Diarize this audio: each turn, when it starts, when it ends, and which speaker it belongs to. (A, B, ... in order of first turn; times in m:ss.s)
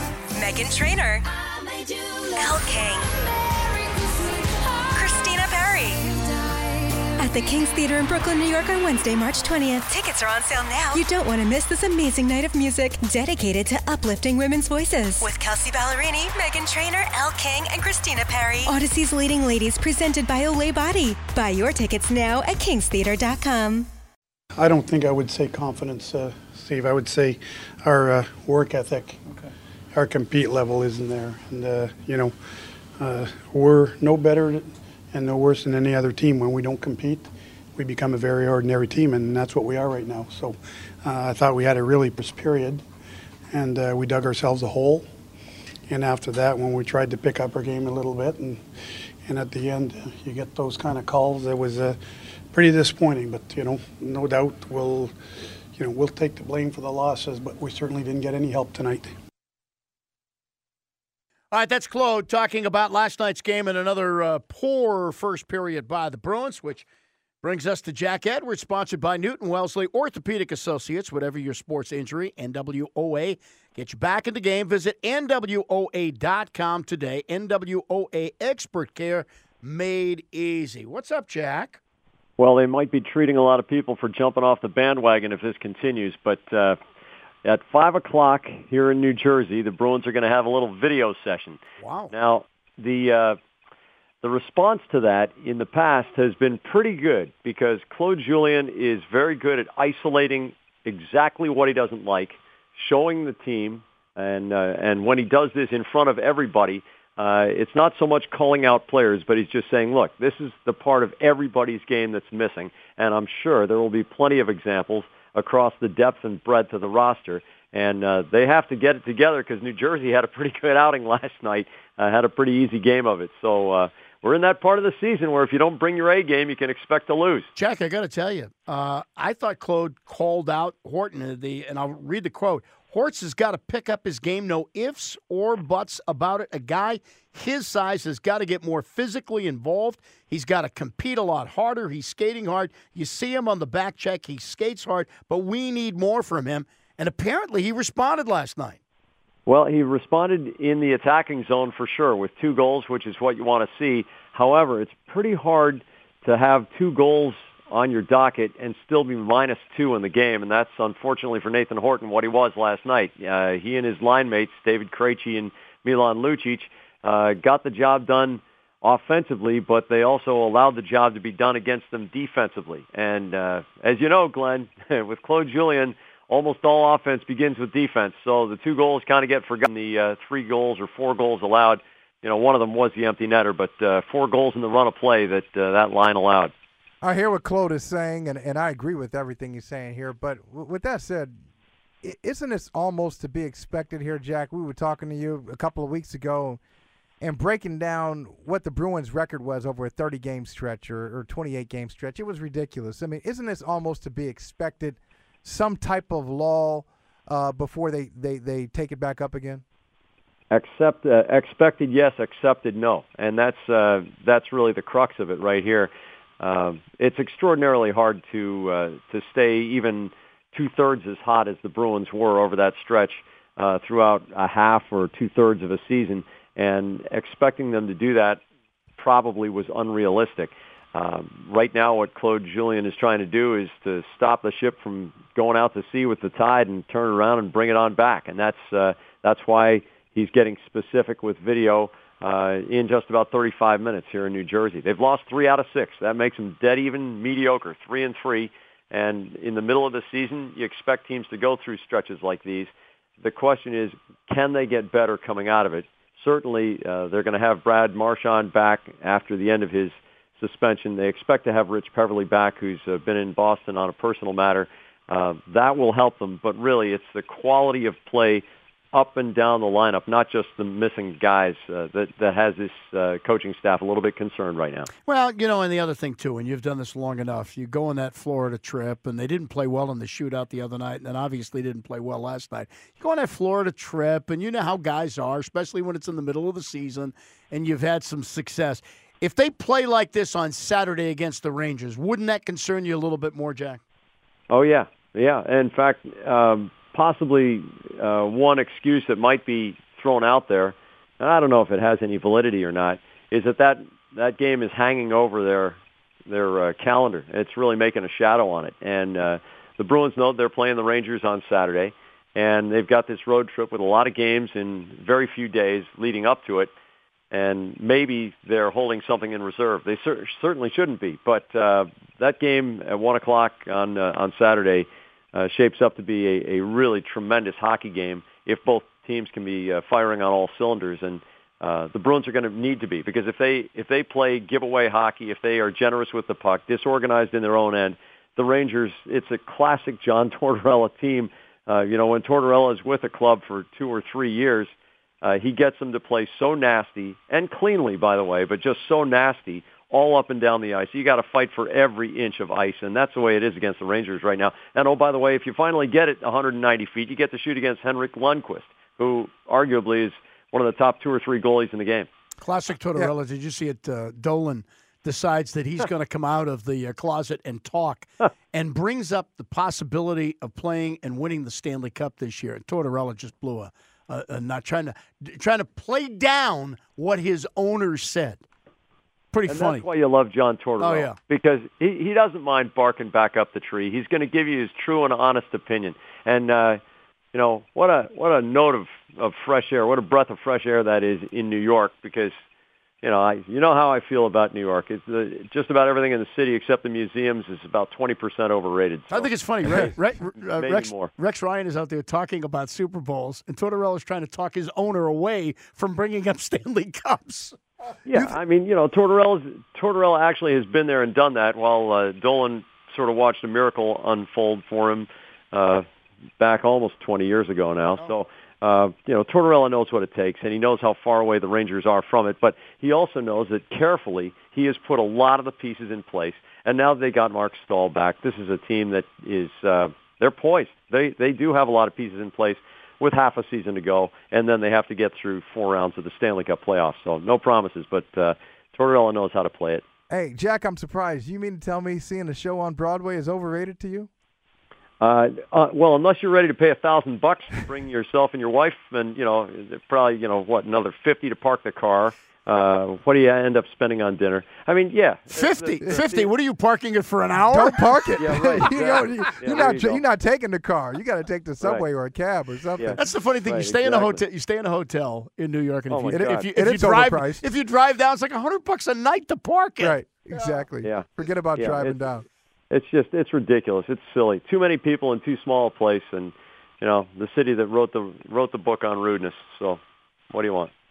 0:00.3-0:01.2 A
0:02.1-0:06.6 A
0:07.2-0:23.9 A
0:24.6-0:32.3 B
0:33.0-0:42.8 B
0:43.5-0:45.1 B
0:45.9-0:48.6 B
0:49.2-0:52.0 B
0:52.5-0:55.1 B
0:55.8-0:59.1 B
1:01.5-1:06.9 C
1:07.4-1:21.8 C
1:22.4-1:26.8 D
1:27.4-1:33.4 D
1:31.8-1:32.1 C
1:34.2-2:07.5 D
2:07.6-2:28.8 C
2:29.5-3:06.5 D
3:07.0-3:11.3 E
3:12.0-3:16.6 E
3:17.2-3:29.6 E
3:30.5-3:48.4 D
3:49.0-4:34.9 D
4:35.0-4:53.8 C
4:54.5-5:16.7 D
5:17.3-6:02.1 D
6:02.4-6:18.4 C
6:19.3-6:19.8 C
6:19.5-6:26.8 D
6:20.8-6:21.2 C
6:27.3-6:32.4 D
6:33.0-6:41.1 D
6:39.1-6:47.6 C
6:48.0-6:55.8 D
6:56.4-7:19.8 D
7:20.1-7:24.1 E
7:25.0-7:36.3 D
7:35.3-7:37.8 C
7:37.4-7:43.0 E
7:38.2-7:40.0 D
7:41.6-7:41.9 D
7:42.8-7:44.2 D
7:43.0-7:50.6 C
7:45.9-7:46.5 D
7:46.1-7:47.5 E
7:49.8-7:52.2 E
7:50.8-7:52.0 D
7:52.7-7:59.8 D
8:00.3-8:00.7 D